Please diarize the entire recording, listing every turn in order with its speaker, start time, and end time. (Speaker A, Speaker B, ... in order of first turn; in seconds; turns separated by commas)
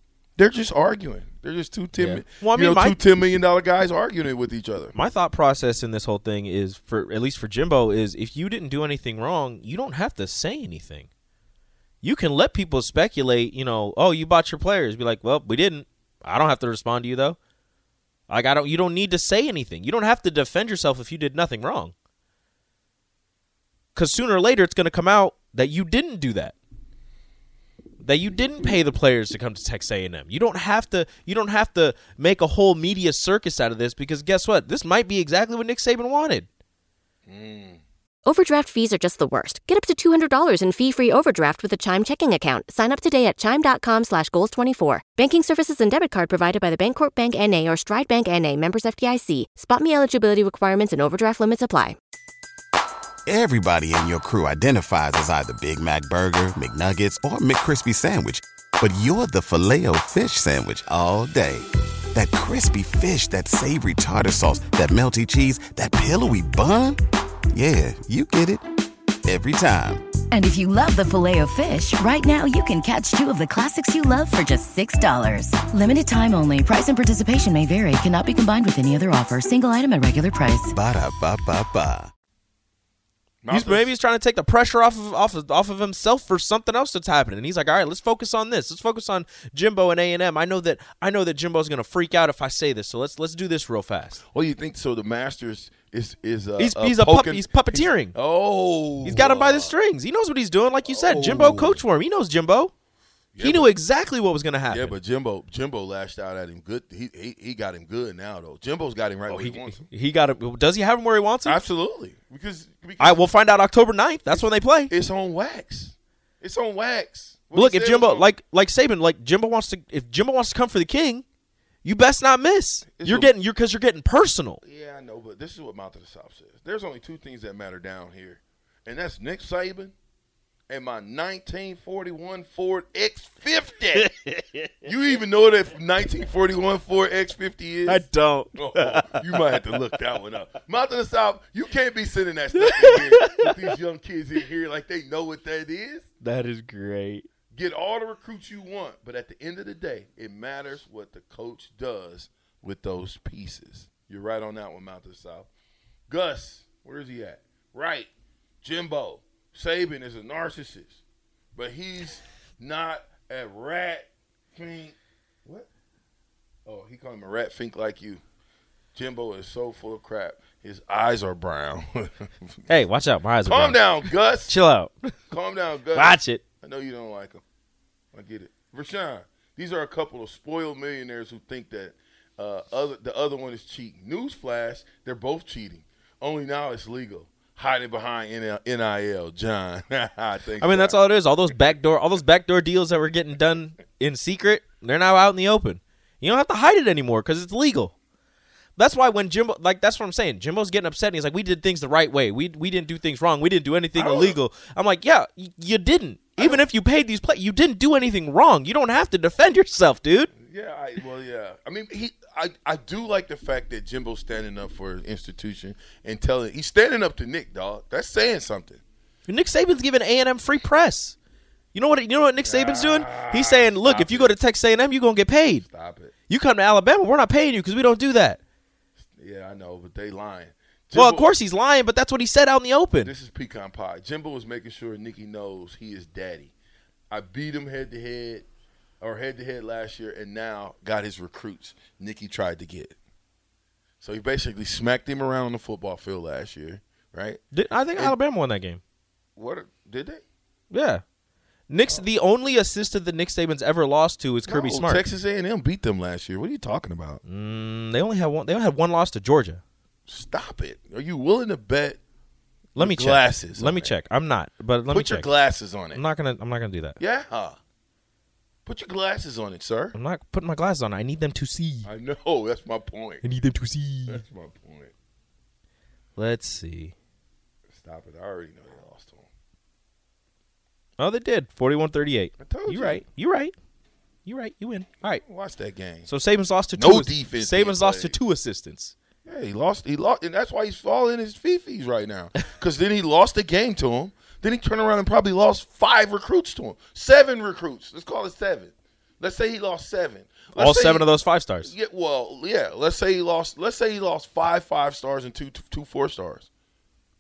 Speaker A: 0.4-5.0, Speaker B: 2.0-3.0, Speaker B: 5.0-11.1, Speaker B: 12.0-17.4, Speaker B: 18.3-21.9, Speaker B: 23.9-26.6, Speaker B: 28.0-36.5, Speaker A: 37.3-37.8, Speaker C: 38.3-52.0, Speaker D: 53.3-67.0, Speaker D: 67.5-68.6, Speaker D: 69.3-70.0, Speaker E: 70.3-80.7, Speaker D: 80.7-82.1, Speaker A: 83.4-83.9, Speaker B: 83.5-94.2, Speaker A: 94.3-99.8, Speaker B: 96.6-98.2, Speaker B: 99.0-102.7, Speaker A: 100.8-101.8, Speaker A: 103.3-103.7, Speaker B: 103.4-104.9, Speaker A: 104.7-109.8, Speaker B: 109.3-111.6, Speaker A: 111.5-113.2, Speaker B: 113.0-114.9, Speaker A: 114.3-118.3, Speaker B: 117.5-121.2, Speaker B: 121.8-124.6, Speaker A: 122.9-123.3, Speaker A: 124.6-129.9, Speaker A: 130.7-134.1, Speaker B: 133.9-134.7, Speaker A: 134.8-146.1, Speaker B: 137.9-139.8, Speaker B: 142.6-143.5, Speaker B: 146.2-147.3, Speaker A: 147.5-155.5, Speaker A: 156.1-158.1, Speaker A: 158.6-161.0, Speaker A: 161.6-165.7, Speaker A: 166.7-168.2, Speaker A: 168.9-172.6, Speaker B: 172.7-175.1, Speaker A: 173.5-174.6, Speaker A: 175.3-177.4, Speaker B: 175.9-176.4, Speaker A: 178.1-191.0, Speaker B: 190.6-197.9, Speaker B: 198.8-210.3, Speaker A: 203.9-204.4, Speaker A: 206.4-206.6, Speaker A: 210.4-218.8, Speaker B: 219.3-221.2, Speaker B: 221.7-225.7, Speaker A: 222.4-224.3, Speaker A: 225.6-226.1, Speaker B: 226.3-228.4, Speaker A: 229.1-231.3, Speaker B: 230.9-233.1, Speaker A: 233.0-236.5, Speaker A: 237.1-238.5, Speaker A: 239.0-243.0, Speaker A: 244.0-247.4, Speaker B: 247.5-248.8, Speaker A: 249.4-250.2, Speaker B: 250.7-251.0, Speaker B: 251.7-255.0, Speaker A: 254.5-257.2, Speaker B: 257.3-259.6, Speaker A: 260.1-262.0, Speaker B: 262.8-265.3, Speaker A: 262.8-263.9, Speaker A: 264.9-266.0, Speaker B: 265.9-267.0, Speaker A: 267.0-267.6, Speaker A: 268.7-270.0, Speaker B: 269.9-271.9, Speaker A: 271.9-273.2, Speaker B: 273.2-274.2, Speaker A: 274.1-274.9, Speaker B: 276.2-276.9, Speaker A: 277.7-279.3, Speaker B: 281.0-283.5, Speaker A: 282.4-283.0, Speaker B: 284.3-285.2, Speaker A: 285.2-286.1, Speaker B: 286.1-288.9, Speaker A: 286.8-288.2, Speaker A: 289.2-301.1, Speaker B: 300.6-301.7, Speaker A: 301.6-306.5